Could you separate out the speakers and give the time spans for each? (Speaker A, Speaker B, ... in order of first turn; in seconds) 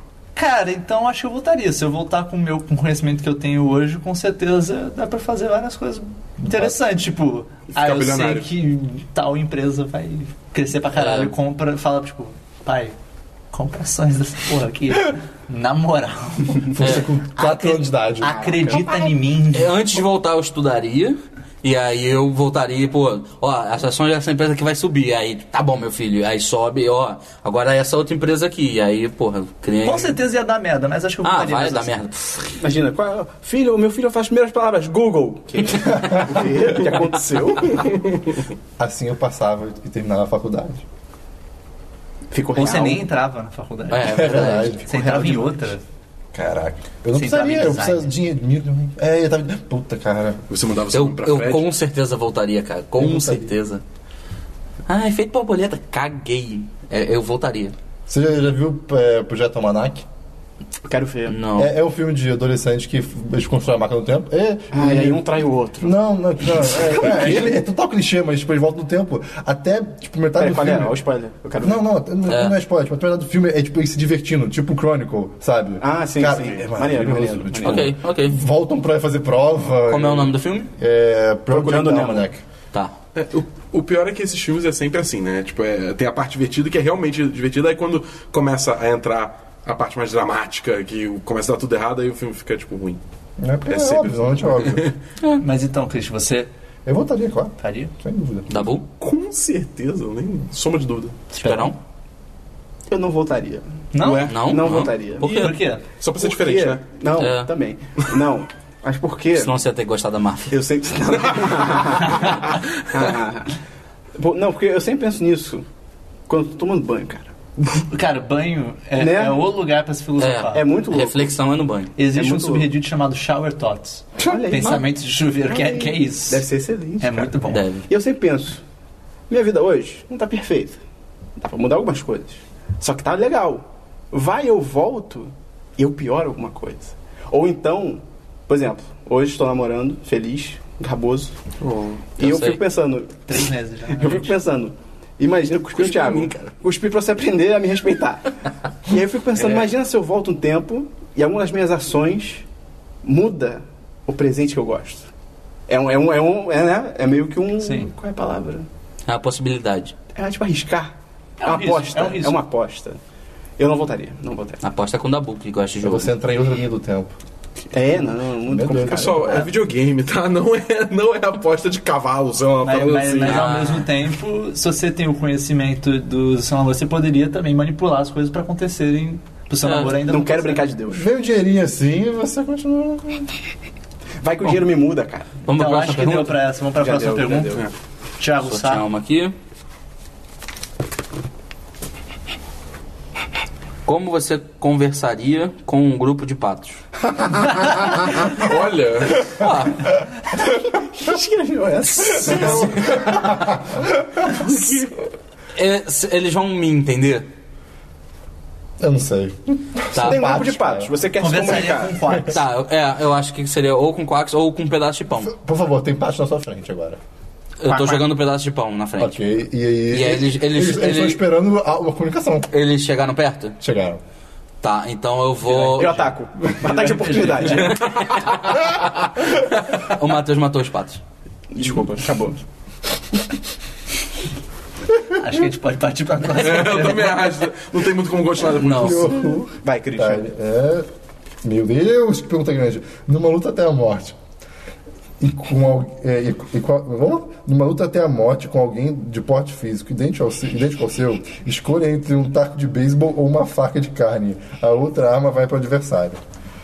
Speaker A: 0.4-13.0, 13.5-19.8, 29.8-32.0, 42.5-45.8, 47.1-48.1, 95.4-96.5, 97.6-97.9, 103.9-104.4, 105.2-105.8, 117.7-120.6, 122.0-126.5, 127.0-127.7, 143.3-144.3, 157.6-157.9, 161.4-162.4, 172.6-180.7, 185.5-187.6, 188.2-188.9, 211.2-212.4, 225.5-227.8, 235.1-237.4
Speaker B: 7.7-8.5, 37.9-38.3, 50.5-51.7, 83.2-93.0, 93.7-95.0, 99.0-101.2, 106.0-106.8, 141.6-142.1, 168.8-173.5, 198.0-199.5, 227.8-228.7, 236.3-239.3
Speaker C: 11.0-11.3, 16.8-17.1, 19.5-30.2, 31.2-32.6, 43.9-44.8, 50.9-53.8, 54.9-57.8, 61.3-61.7, 72.3-72.5, 77.6-78.4, 79.9-80.7, 98.5-98.8, 101.3-101.8, 104.3-105.6, 107.2-107.5, 109.4-110.6, 120.2-121.9, 127.5-127.9, 142.2-142.6, 145.8-146.5, 159.1-159.9, 164.6-166.1, 173.2-173.9, 179.6-179.9, 185.5-186.4, 188.5-189.3, 193.9-196.8, 199.2-200.0, 202.2-202.7, 205.6-207.3, 209.9-210.4, 212.2-215.3, 217.6-219.2, 219.9-221.2, 222.5-223.6, 224.6-226.0, 229.7-231.0, 238.6-239.1
Speaker D: 16.7-18.4, 38.8-40.8, 44.0-45.4, 46.3-50.4, 53.0-53.5, 58.1-60.0, 61.5-65.2, 65.8-71.0, 71.6-82.4, 93.4-94.9, 96.9-98.5, 165.8-167.1, 168.5-169.3, 180.9-183.3, 202.3-204.1, 208.8-210.9, 215.2-217.0, 219.0-222.5, 223.6-224.0, 238.7-240.9, 241.4-244.2, 245.2-256.2
Speaker E: 18.3-19.1, 32.6-37.9, 42.3-43.0, 45.1-45.4, 60.8-61.4, 64.7-65.9, 66.5-67.5, 70.4-71.8, 75.8-77.9, 81.5-82.3, 102.9-105.5, 106.2-109.5, 110.5-113.5, 114.2-115.7, 116.3-117.3, 119.0-119.4, 120.5-121.3, 122.1-122.7, 124.2-124.9, 125.5-128.6, 129.3-130.8, 131.4-141.3, 142.2-143.4, 143.9-148.3, 148.8-152.4, 153.0-155.1, 155.7-158.7, 160.2-163.0, 163.6-164.6, 167.7-169.4, 180.0-181.0, 184.2-185.3, 186.8-187.7, 200.6-203.2, 210.0-212.2, 217.7-218.0, 225.7-227.9, 231.5-232.4, 239.5-240.3